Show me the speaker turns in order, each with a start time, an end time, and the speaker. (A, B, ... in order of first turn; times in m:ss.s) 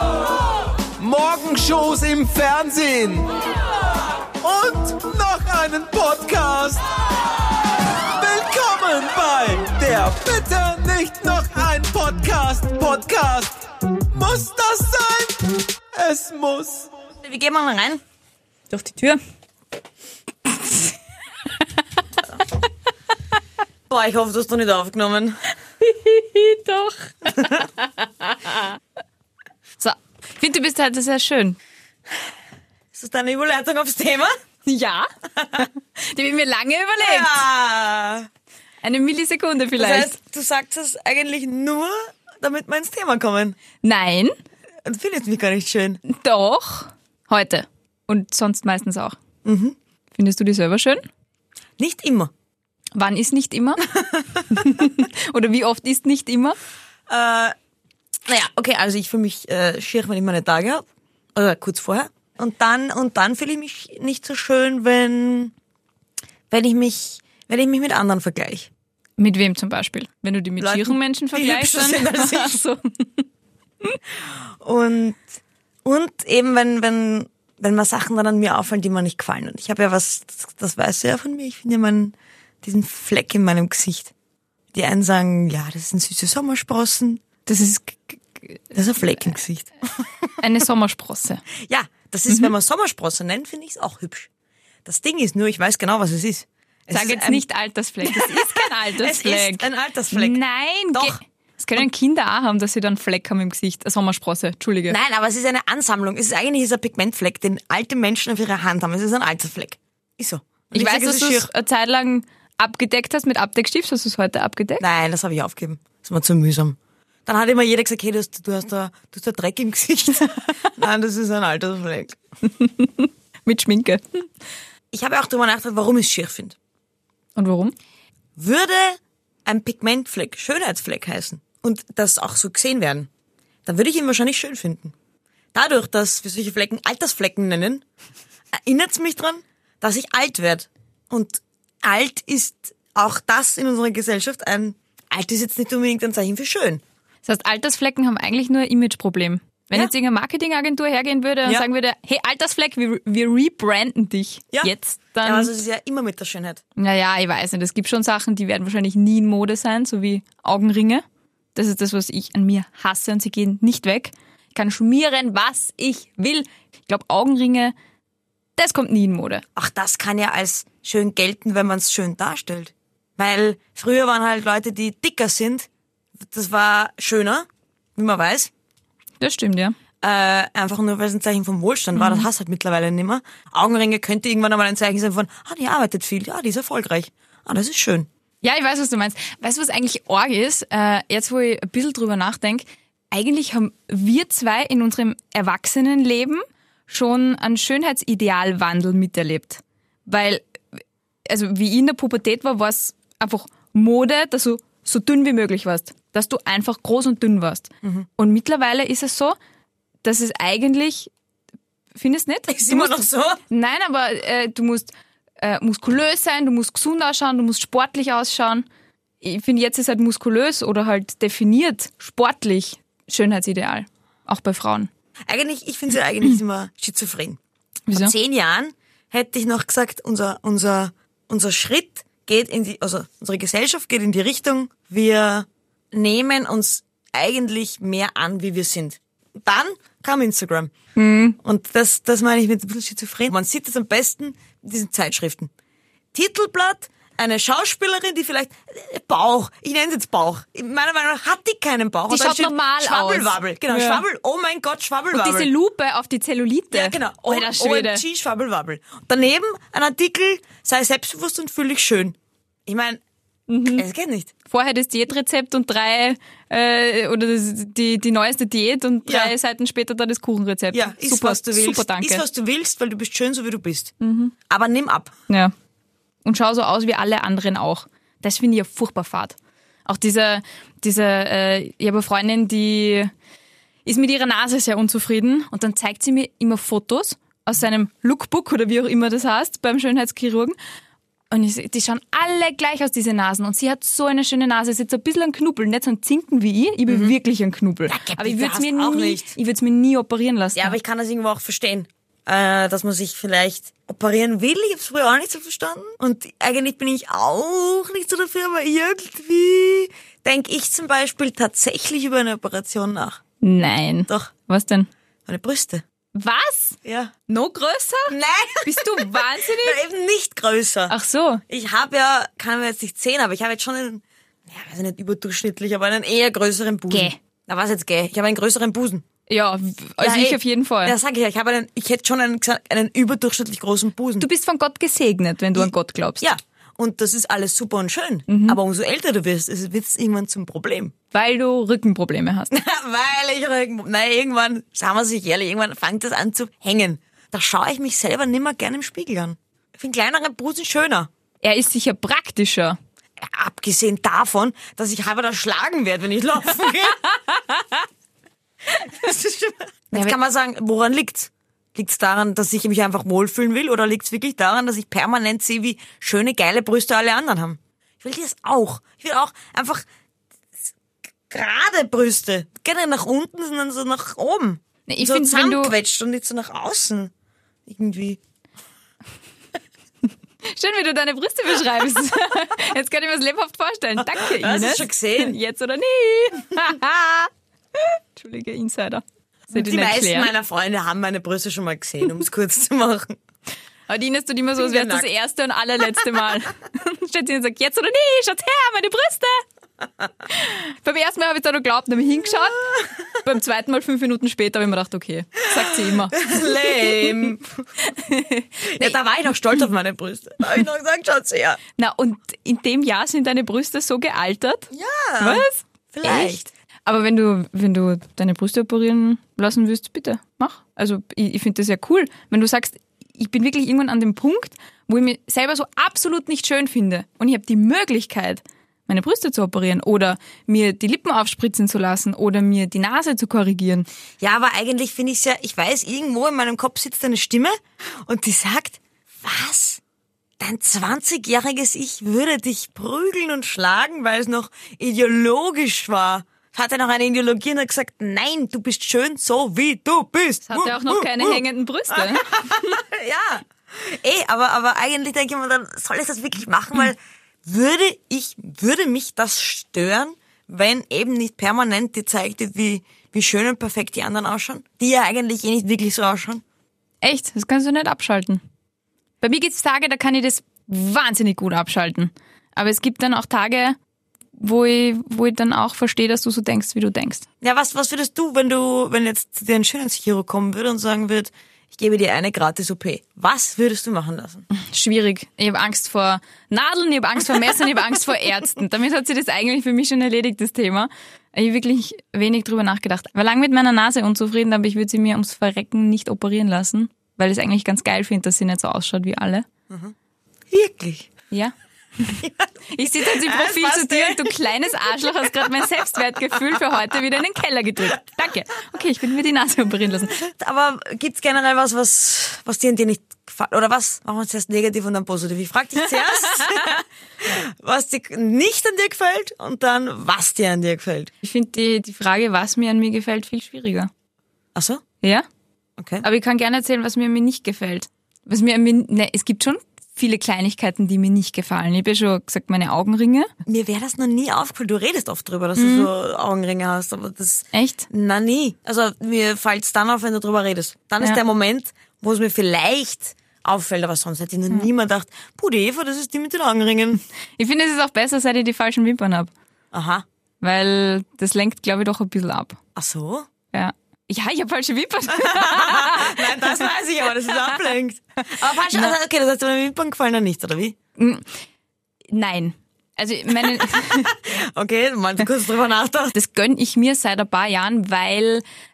0:01.0-0:03.3 A
0:04.4-0:06.8 A
0:08.1-0:16.9 A
0:17.2-0:18.0 B
0:18.7-0:19.2 C
0:23.9-0:25.4 B
0:25.8-0:27.7 C
0:27.3-0:27.7 B
0:29.8-0:31.6 C
0:32.9-0:34.3 B
0:34.6-0:37.4 C
0:35.4-0:35.6 B
0:37.0-0:38.3 B
0:38.8-0:40.2 C
0:39.7-0:43.6 B
0:43.8-0:44.3 C
0:44.8-0:46.0 B
0:46.0-0:49.2 C
0:49.4-0:49.8 B
0:50.1-0:51.0 C
0:51.8-0:52.3 B
0:52.9-0:53.8 C
0:53.9-0:54.7 B
0:54.5-0:56.6 C
0:57.1-0:57.5 B
0:58.3-1:05.5 B
1:06.5-1:08.7 B
1:09.2-1:13.2 C
1:10.6-1:12.6 B
1:14.6-1:15.2 B
1:15.8-1:24.1 B
1:24.7-1:27.2 B
1:27.4-1:28.6 C
1:28.7-1:30.3 B
1:30.4-1:31.4 C
1:31.6-1:34.3 B
1:34.8-1:37.4 B
1:36.9-1:45.0 C
1:38.0-1:40.4 B
1:40.9-1:41.2 B
1:44.9-1:51.5 B
1:50.7-1:54.8 C
1:54.8-2:02.2 B
2:02.4-2:04.3 C
2:04.9-2:06.6 B
2:07.4-2:07.7 C
2:08.4-2:13.1 B
2:13.6-2:14.9 B
2:15.5-2:17.8 B
2:18.6-2:26.8 B
2:27.2-2:35.5 C
2:35.2-2:36.6 B
2:36.8-2:41.0 C
2:41.5-2:47.7 C
2:48.6-2:49.4 C
2:49.6-2:55.7 B
2:56.2-2:58.5 B
2:59.2-2:59.8 C
3:00.0-3:08.1 B
3:02.0-3:02.2 C
3:08.4-3:20.6 C
3:21.2-3:29.4 C
3:30.0-3:31.1 C
3:31.9-3:38.6 C
3:32.5-3:33.4 B
3:39.2-3:44.9 C
3:45.3-3:47.4 B
3:47.9-3:48.1 C
3:47.9-4:00.7 B
4:01.0-4:01.4 C
4:01.4-4:05.5 B
4:06.1-4:15.5 B
4:12.1-4:14.0 C
4:15.1-4:18.0 C
4:16.7-4:23.0 B
4:23.5-4:23.8 C
4:23.8-4:24.3 B
4:24.5-4:32.2 C
4:29.0-4:29.3 B
4:30.7-4:33.9 B
4:34.0-4:34.3 C
4:34.5-4:35.1 B
4:36.2-4:43.1 C
4:43.8-4:50.6 C
4:51.3-5:00.8 C
4:56.9-4:57.1 B
4:57.9-4:59.3 B
5:00.5-5:13.2 B
5:13.4-5:14.9 C
5:15.2-5:15.8 B
5:16.1-5:19.8 C
5:16.8-5:17.1 B
5:18.1-5:20.9 B
5:20.9-5:21.4 C
5:21.5-5:29.0 B
5:26.9-5:27.2 C
5:29.3-5:31.0 C
5:30.0-5:34.3 B
5:34.2-5:36.2 C
5:35.5-5:40.9 B
5:38.3-5:38.6 C
5:41.1-5:42.5 C
5:42.5-5:51.1 B
5:51.4-5:52.8 C
5:53.2-5:57.0 B
5:57.1-5:57.8 C
5:58.8-6:09.8 B
6:11.3-6:17.1 B
6:14.9-6:15.7 C
6:17.7-6:18.2 B
6:20.4-6:30.3 C
6:24.0-6:25.4 B
6:29.5-6:33.2 B
6:33.9-6:39.4 C
6:34.6-6:35.1 B
6:40.3-6:49.0 C
6:42.6-6:43.0 B
6:46.1-6:47.5 B
6:48.6-6:51.6 B
6:51.8-7:13.9 C
6:54.7-6:56.4 B
7:14.2-7:19.8 B
7:20.4-7:46.4 B
7:30.4-7:32.8 C
7:47.0-7:48.4 C
7:49.2-7:53.8 C
7:54.4-7:57.2 C
7:57.4-8:04.4 B
8:04.5-8:19.4 C
8:19.7-8:19.9 B
8:20.5-8:21.1 B
8:21.3-8:30.2 C
8:22.2-8:25.5 B
8:30.2-8:41.1 B
8:36.0-8:36.8 C
8:41.2-8:43.9 C
8:44.5-8:44.8 B
8:45.8-8:46.0 B
8:46.0-8:53.3 C
8:53.4-9:07.0 B
8:55.6-8:55.9 C
8:57.5-8:57.9 C
9:07.4-9:09.3 C
9:09.7-9:10.0 B
9:10.4-9:12.6 C
9:12.7-9:13.3 B
9:13.5-9:16.7 C
9:15.1-9:20.8 B
9:17.3-9:17.6 C
9:18.7-9:18.9 C
9:21.0-9:21.3 C
9:22.1-9:24.2 C
9:23.4-9:26.1 B
9:26.1-9:28.4 C